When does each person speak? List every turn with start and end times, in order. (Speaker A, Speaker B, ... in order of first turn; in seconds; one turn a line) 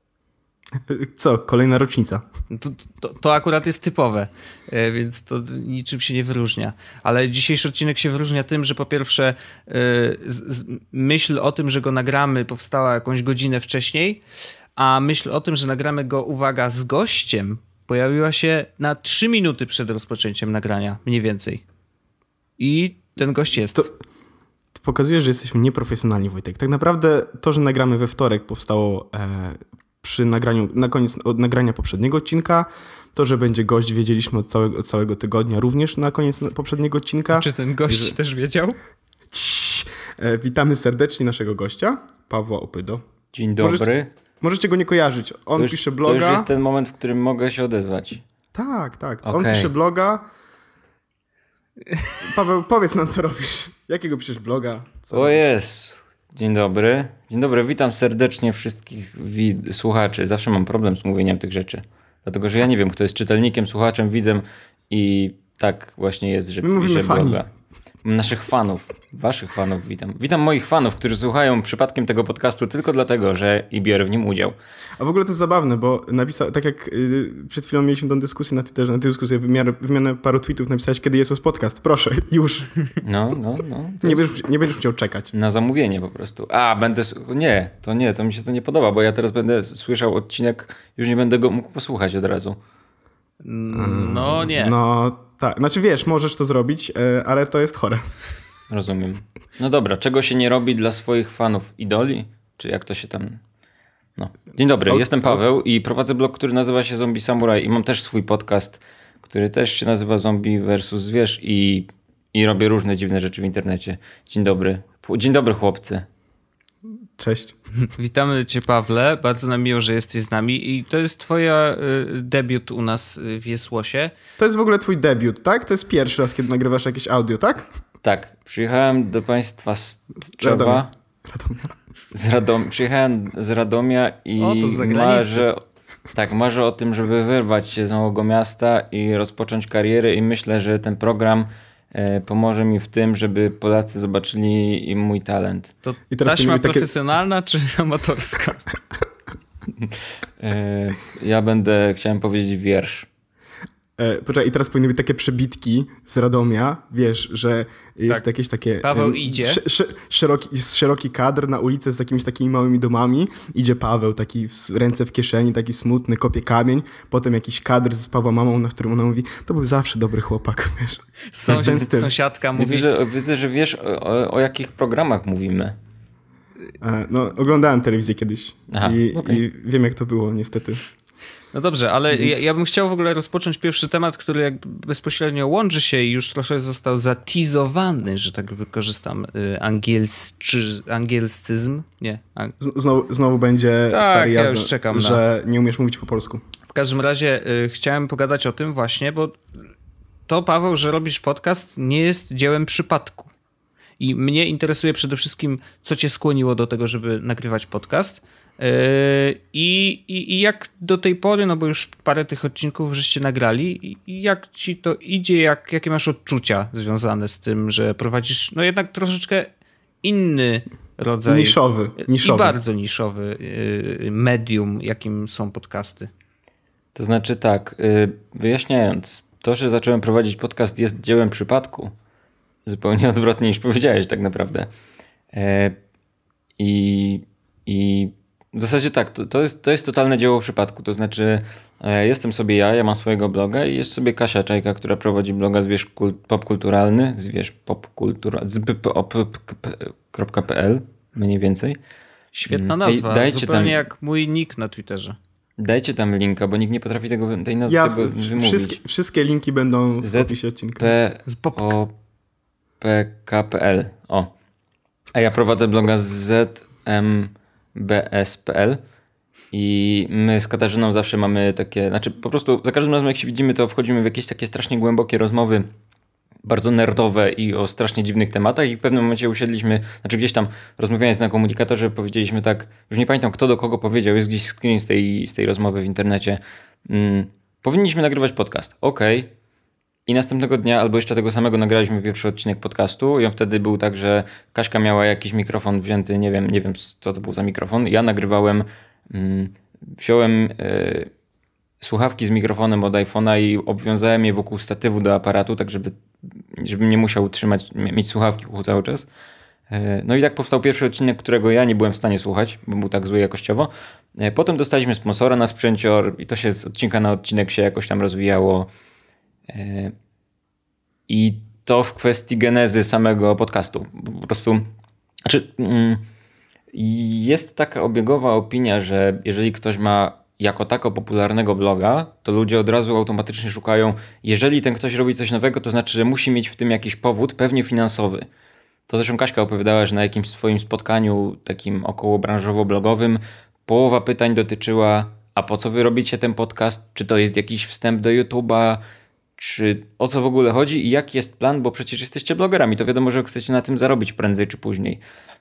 Speaker A: 0.8-2.2
Speaker B: 2.5-14.2
Speaker B: 14.8-21.6
Speaker B: 22.6-23.9
Speaker A: 24.8-38.1
Speaker B: 37.3-38.8
Speaker A: 39.3-43.0
Speaker C: 43.3-44.1
Speaker A: 43.6-43.9
Speaker A: 44.4-46.5
Speaker C: 45.6-48.2
Speaker A: 48.5-50.2
Speaker C: 49.2-49.7
Speaker A: 52.2-55.5
Speaker C: 55.1-67.5
Speaker A: 66.6-67.4
Speaker C: 68.0-74.6
Speaker A: 75.0-82.7
Speaker C: 83.0-84.4
Speaker A: 84.0-85.3
Speaker C: 85.3-92.6
Speaker B: 93.4-94.8
Speaker A: 93.7-98.1
Speaker C: 98.7-103.4
Speaker C: 104.2-116.1
Speaker A: 104.9-105.4
Speaker A: 117.2-117.6
Speaker B: 117.9-124.1
Speaker A: 124.4-127.7
Speaker C: 128.0-130.9
Speaker A: 130.4-131.7
Speaker C: 132.1-135.6
Speaker B: 134.4-135.5
Speaker C: 136.1-145.7
Speaker B: 145.8-148.6
Speaker A: 146.1-146.9
Speaker C: 149.8-153.1
Speaker A: 154.0-172.1
Speaker B: 158.8-159.6
Speaker B: 171.3-172.9
Speaker C: 172.6-175.8
Speaker A: 176.8-180.8
Speaker C: 178.7-179.4
Speaker B: 181.5-192.5
Speaker A: 182.1-182.4
Speaker A: 192.6-196.4
Speaker B: 193.9-195.2
Speaker B: 196.7-199.4
Speaker B: 200.3-203.3
Speaker B: 204.0-219.5
Speaker B: 220.0-226.1
Speaker A: 221.3-222.6
Speaker C: 226.9-231.9
Speaker C: 232.7-234.7
Speaker C: 235.3-235.8
Speaker C: 236.6-251.8
Speaker B: 252.3-255.2
Speaker C: 252.5-253.8
Speaker C: 255.6-258.8
Speaker A: 257.7-260.9
Speaker C: 260.0-261.9
Speaker B: 261.3-261.8
Speaker C: 262.8-264.3
Speaker C: 265.1-268.8
Speaker C: 269.5-275.7
Speaker C: 276.4-289.3
Speaker C: 290.1-301.1
Speaker C: 301.8-306.0
Speaker C: 306.5-309.1
Speaker C: 309.7-318.7
Speaker C: 319.5-319.9
Speaker C: 321.1-324.7
Speaker C: 325.2-326.1
Speaker C: 326.7-338.3
Speaker C: 338.9-348.8
Speaker C: 349.4-355.0